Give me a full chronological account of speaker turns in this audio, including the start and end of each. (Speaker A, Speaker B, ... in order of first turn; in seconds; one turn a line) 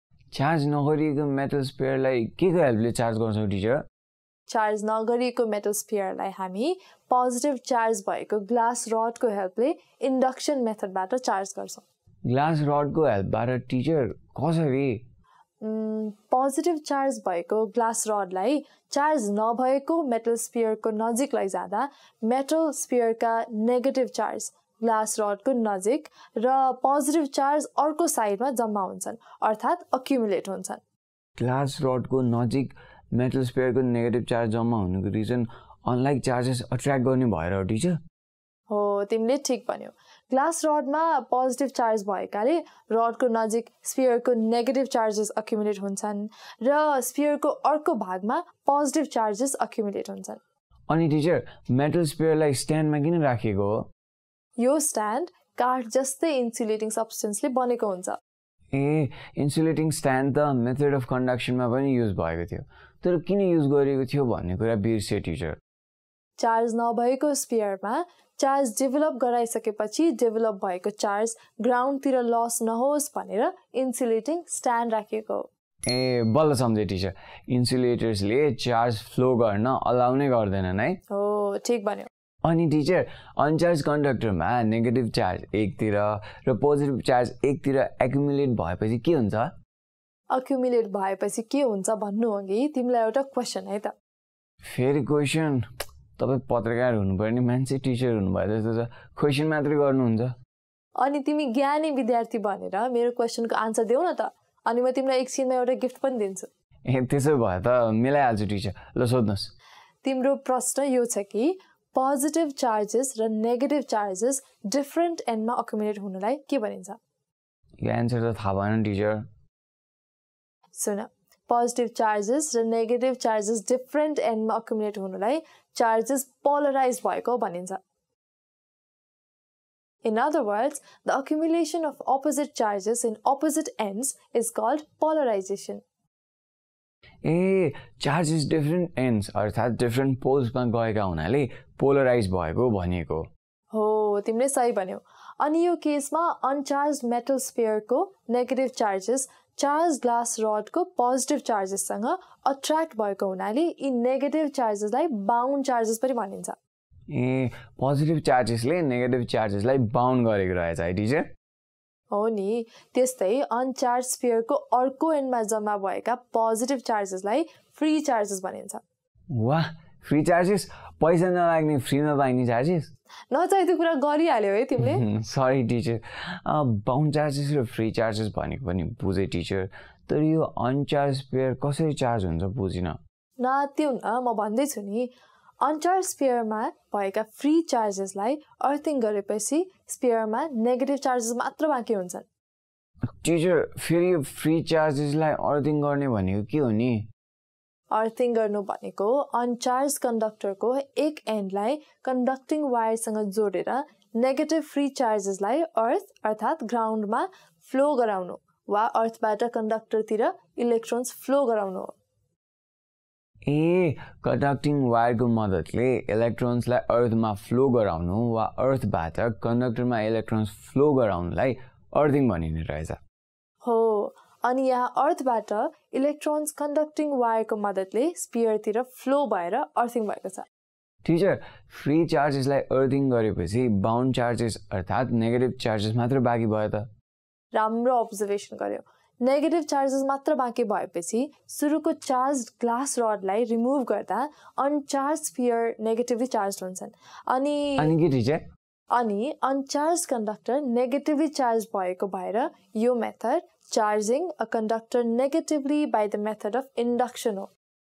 Speaker A: 0.3-3.8
Speaker B: 4.5-11.8
Speaker A: 12.2-15.0
Speaker B: 15.6-30.8
Speaker A: 31.4-38.0
Speaker B: 38.7-50.4
Speaker A: 50.9-53.9
Speaker B: 54.6-58.2
Speaker A: 58.7-65.6
Speaker B: 66.4-75.5
Speaker A: 75.9-81.0
Speaker B: 81.1-82.1
Speaker A: 82.4-89.5
Speaker B: 90.3-93.9
Speaker A: 94.6-95.7
Speaker A: 96.2-100.3
Speaker B: 101.0-106.5
Speaker A: 106.8-109.5
Speaker B: 110.0-117.0
Speaker A: 117.8-119.2
Speaker B: 120.7-127.8
Speaker B: 130.0-135.8
Speaker A: 137.2-143.3
Speaker B: 143.7-156.6
Speaker A: 157.1-161.3
Speaker B: 162.1-168.8
Speaker A: 169.3-172.9
Speaker B: 173.3-175.0
Speaker A: 174.8-183.0
Speaker B: 183.4-192.2
Speaker A: 193.2-197.1
Speaker B: 197.9-211.9
Speaker A: 213.5-223.0
Speaker B: 223.6-230.5
Speaker A: 231.0-236.8
Speaker B: 237.5-247.9
Speaker A: 247.8-248.4
Speaker B: 248.9-257.5